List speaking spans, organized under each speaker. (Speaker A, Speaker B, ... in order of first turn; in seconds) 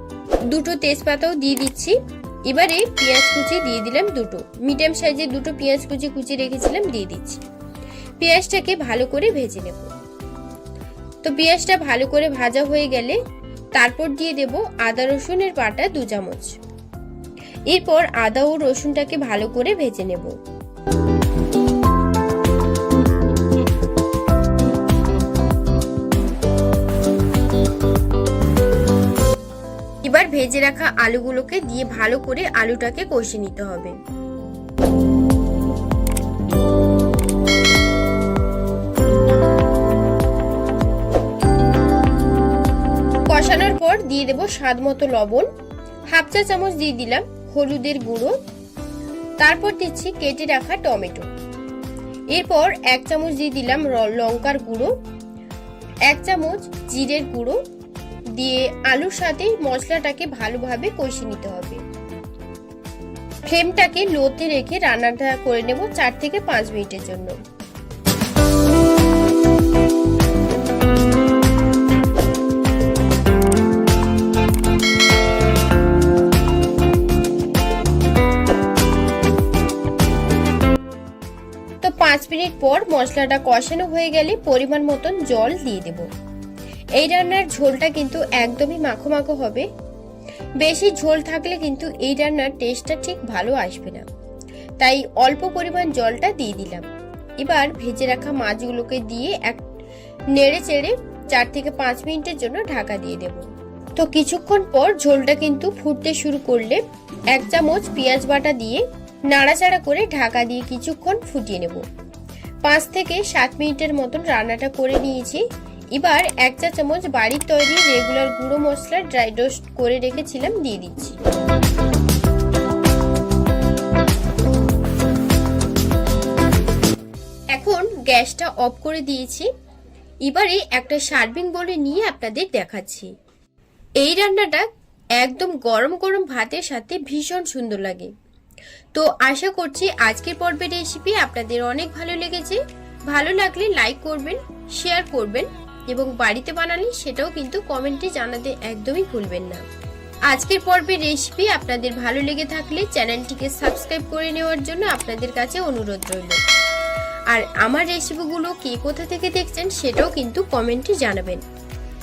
Speaker A: 0.5-7.4, 8.2-9.9, 11.2-13.2, 13.7-16.6, 17.7-20.3, 30.0-33.9, 43.3-45.5, 46.1-48.3, 49.4-51.3, 52.3-54.9, 56.1-57.6, 58.4-61.8, 63.5-67.3, 81.8-86.1, 87.0-89.7, 90.6-94.0, 94.8-96.8, 97.4-99.6, 100.3-103.5, 104.0-106.8, 107.3-111.8, 112.6-121.2, 127.5-129.5, 130.2-133.1, 134.0-138.1, 138.9-149.6, 150.3-156.4, 157.3-161.4